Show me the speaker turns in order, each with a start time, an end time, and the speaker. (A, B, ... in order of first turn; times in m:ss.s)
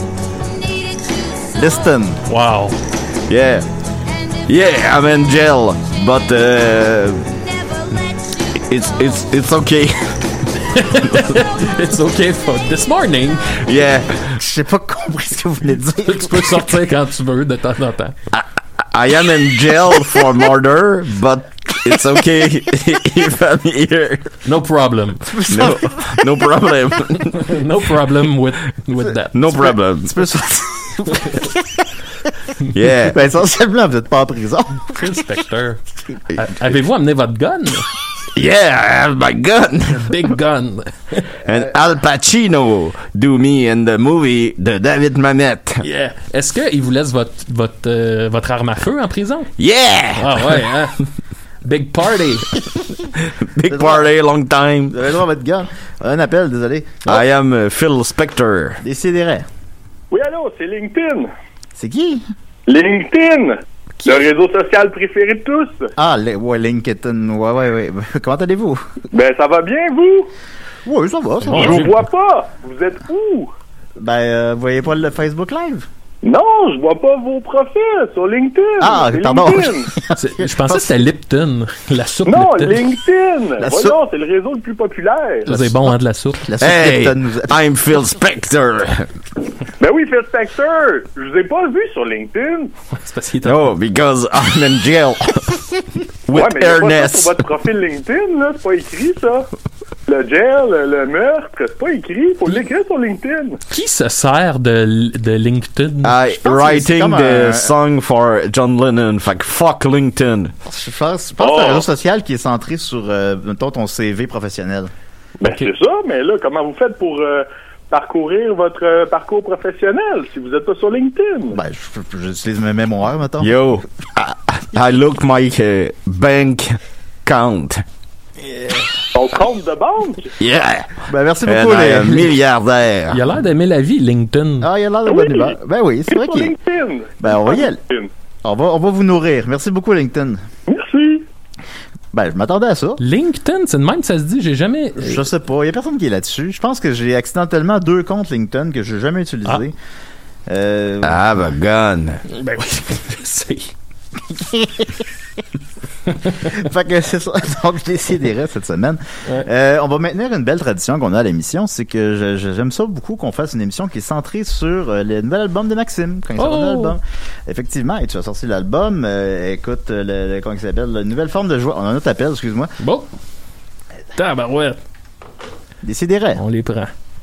0:01.5-0:02.2 A
0:02.3-0:02.8 B
0:03.3-0:03.6 C
0:04.5-0:07.3 C
0:08.5-0:10.2 C
0:10.7-0:13.6 B
0:13.6-0:14.4 C
0:14.4-0:16.7 A
0:16.0-0:18.2 B
0:18.3-0:24.3 C
0:24.4-0:25.4 B
0:25.3-0:26.2 A
0:25.5-0:27.5 C
0:27.3-0:29.7 B
0:29.3-0:30.2 C
0:29.6-0:31.8 A
0:32.7-0:33.2 C
0:32.9-0:35.2 A
0:34.9-0:35.8 B
0:36.3-0:37.8 B
0:38.3-0:40.2 C
0:39.9-0:41.3 B
0:41.4-0:45.8 C
0:45.8-0:49.5 B
0:49.6-0:50.6 C
0:50.2-0:51.0 B
0:51.6-0:52.5 B
0:53.2-0:55.0 C
0:53.7-0:54.1 A
0:54.9-0:57.2 A
0:57.1-0:58.8 C
0:58.8-0:59.5 A
1:00.1-1:01.3 D
1:01.8-1:02.2 A
1:02.7-1:05.9 D
1:06.0-1:09.0 A
1:09.1-1:10.3 D
1:10.8-1:11.9 A
1:11.4-1:12.0 B
1:11.5-1:13.5 D
1:14.0-1:15.9 A
1:16.2-1:19.9 D
1:18.8-1:21.0 A
1:20.1-1:22.8 B
1:22.2-1:25.5 D
1:23.6-1:24.0 A
1:25.5-1:26.4 B
1:25.5-1:27.6 A
1:26.6-1:29.1 C
1:29.8-1:32.7 D
1:32.9-1:33.7 B
1:33.4-1:37.5 C
1:36.3-1:39.5 D
1:40.1-1:43.6 D
1:43.7-1:46.1 B
1:46.0-1:50.5 C
1:46.4-1:47.7 A
1:50.6-1:54.9 A
1:51.4-1:51.8 D
1:55.4-1:55.7 B
1:55.4-2:01.6 D
2:01.5-2:03.5 A
2:03.4-2:07.8 C
2:09.1-2:10.3 D
2:10.4-2:13.2 C
2:11.1-2:12.4 A
2:13.1-2:14.7 B
2:14.6-2:16.5 A
2:15.0-2:15.5 D
2:16.1-2:18.1 D
2:17.2-2:17.8 A
2:18.4-2:20.4 A
2:20.7-2:21.2 D
2:22.1-2:23.0 A
2:23.0-2:25.2 B
2:25.0-2:29.7 A
2:30.5-2:31.2 A
2:31.0-2:32.2 C
2:32.3-2:33.7 B
2:34.3-2:34.9 A
2:36.3-2:52.7 A
2:46.4-2:46.9 B
2:52.8-2:53.1 B
2:54.2-2:54.8 B
2:55.8-2:56.4 A
2:56.4-2:56.9 B